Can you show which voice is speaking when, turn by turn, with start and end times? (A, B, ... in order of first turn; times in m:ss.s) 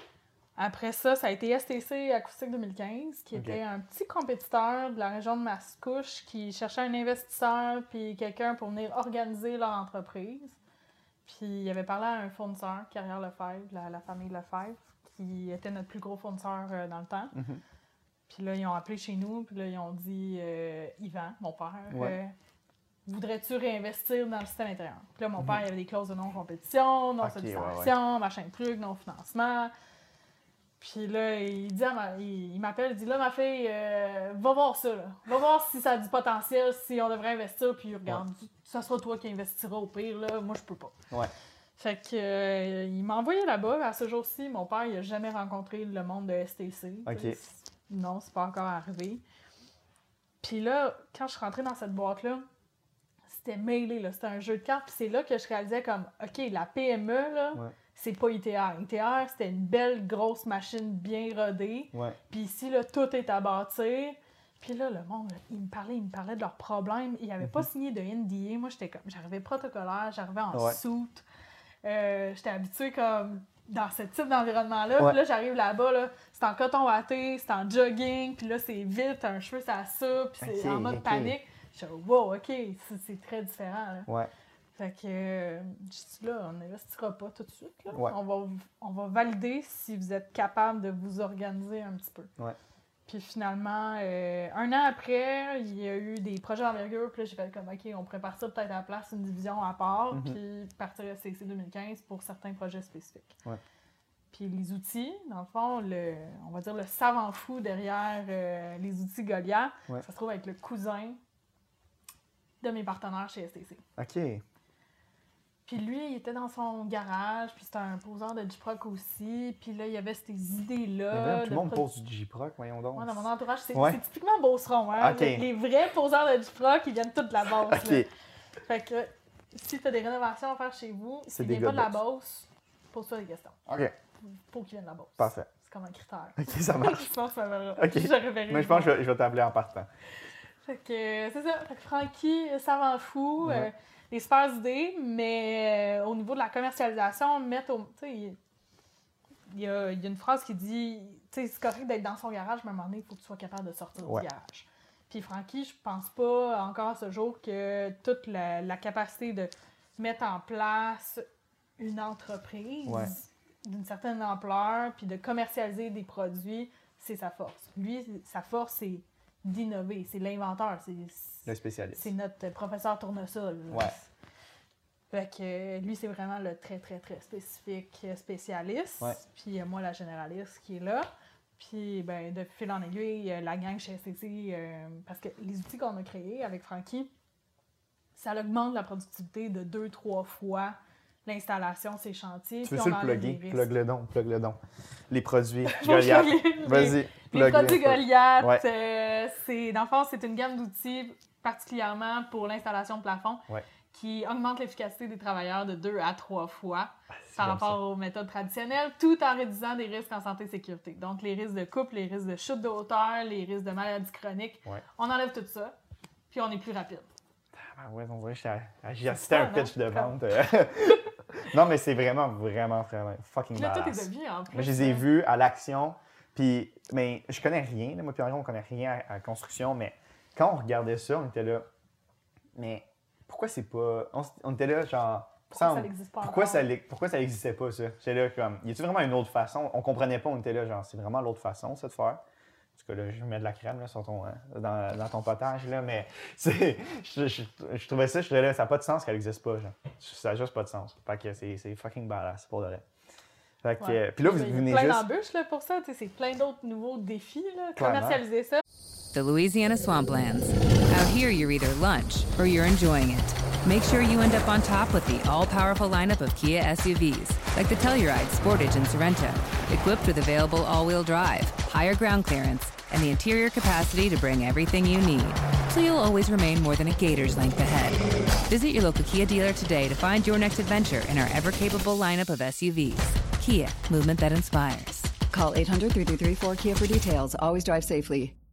0:00.6-0:10.6 A
0:03.3-0:03.6 B
0:11.2-0:17.4 A
0:17.3-0:17.6 B
0:18.3-0:22.3 A
0:21.9-0:22.2 B
0:23.1-0:29.7 A
0:27.2-0:27.9 B
0:30.8-0:41.0 A
0:41.8-0:49.2 A
0:47.1-0:47.4 B
0:50.4-0:52.5 A
0:53.3-1:11.2 A
1:01.9-1:02.2 B
1:10.5-1:10.8 B
1:11.8-1:24.1 A
1:20.4-1:21.4 B
1:24.8-1:32.3 A
1:33.1-1:43.4 A
1:40.1-1:40.4 B
1:44.3-1:51.2 A
1:52.6-1:53.8 A
1:54.0-1:54.4 B
1:55.7-2:01.8 A
2:01.1-2:04.0 B
2:03.0-2:08.1 A
2:05.0-2:05.5 B
2:07.7-2:08.1 B
2:08.7-2:13.6 A
2:11.3-2:12.0 B
2:13.7-2:13.9 B
2:14.2-2:19.0 A
2:15.2-2:15.5 B
2:16.4-2:17.0 B
2:17.8-2:19.9 B
2:20.6-2:28.4 A
2:23.4-2:23.7 B
2:29.5-2:41.3 A
2:41.8-2:54.1 A
2:42.9-2:43.1 B
2:51.5-2:52.1 B
2:53.7-2:54.0 B
2:55.1-3:07.1 A
3:08.2-3:13.7 A
3:12.6-3:14.6 B
3:15.1-3:18.6 B
3:15.7-3:35.8 A
3:27.3-3:27.8 B
3:36.3-3:37.1 A
3:37.6-3:51.7 B
3:39.1-3:40.2 A
3:43.5-3:45.1 A
3:52.6-4:02.2 B
3:55.5-3:56.7 A
4:02.8-4:12.8 B
4:13.6-4:15.0 B
4:13.8-4:18.6 A
4:17.8-4:18.2 B
4:19.1-4:45.1 C
4:45.3-4:48.3 D